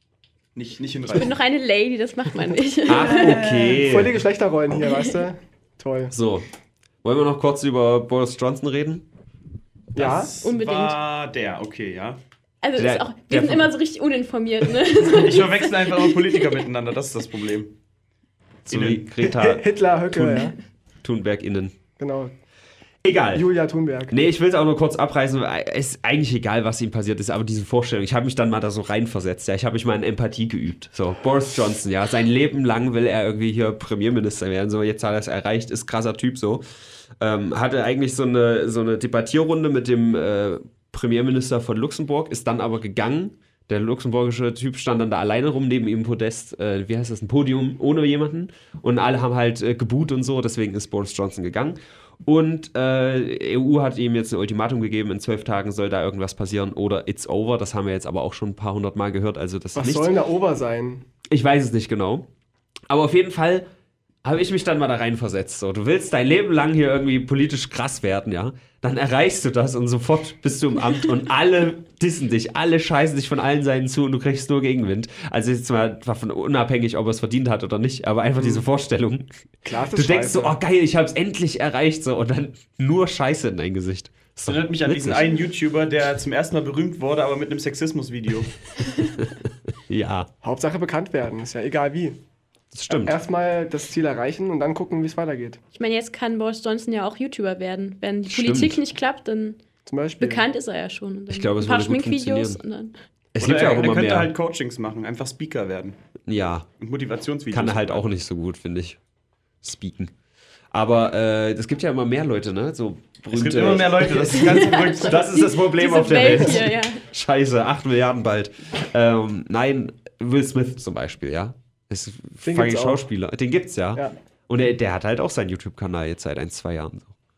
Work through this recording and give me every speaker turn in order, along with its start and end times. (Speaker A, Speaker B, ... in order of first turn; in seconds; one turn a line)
Speaker A: 0.5-1.4
Speaker B: 1.1-3.5
Speaker C: 2.9-4.2
Speaker A: 2.9-3.9
Speaker D: 3.8-6.1
Speaker C: 6.1-6.5
Speaker C: 7.0-9.1
Speaker D: 9.9-10.3
Speaker A: 9.9-12.2
Speaker B: 10.4-11.0
Speaker B: 12.6-16.4
Speaker C: 12.8-13.7
Speaker A: 15.0-17.8
Speaker C: 18.6-20.5
Speaker A: 18.7-19.0
Speaker D: 19.2-20.5
Speaker C: 21.0-21.7
Speaker D: 22.0-22.3
Speaker C: 23.0-23.4
Speaker D: 23.3-24.1
Speaker C: 24.1-36.6
Speaker C: 37.2-60.1
Speaker D: 59.7-61.0
Speaker C: 61.3-62.3
Speaker C: 62.9-63.7
Speaker C: 64.2-85.4
Speaker D: 79.6-80.6
Speaker A: 84.5-88.5
Speaker C: 89.2-90.3
Speaker D: 90.4-92.2
Speaker C: 92.7-93.2
Speaker D: 92.9-95.6
Speaker B: 95.7-99.6
Speaker C: 98.3-98.8
Speaker D: 99.8-100.4
Speaker B: 100.2-102.9
Speaker C: 101.3-102.6
Speaker C: 103.3-104.3
Speaker A: 103.4-106.0
Speaker C: 106.2-106.7
Speaker A: 106.8-108.0
Speaker C: 107.5-109.0
Speaker C: 109.6-110.1
Speaker C: 110.7-127.1
Speaker A: 113.3-115.4
Speaker B: 114.3-117.0
Speaker D: 122.4-123.0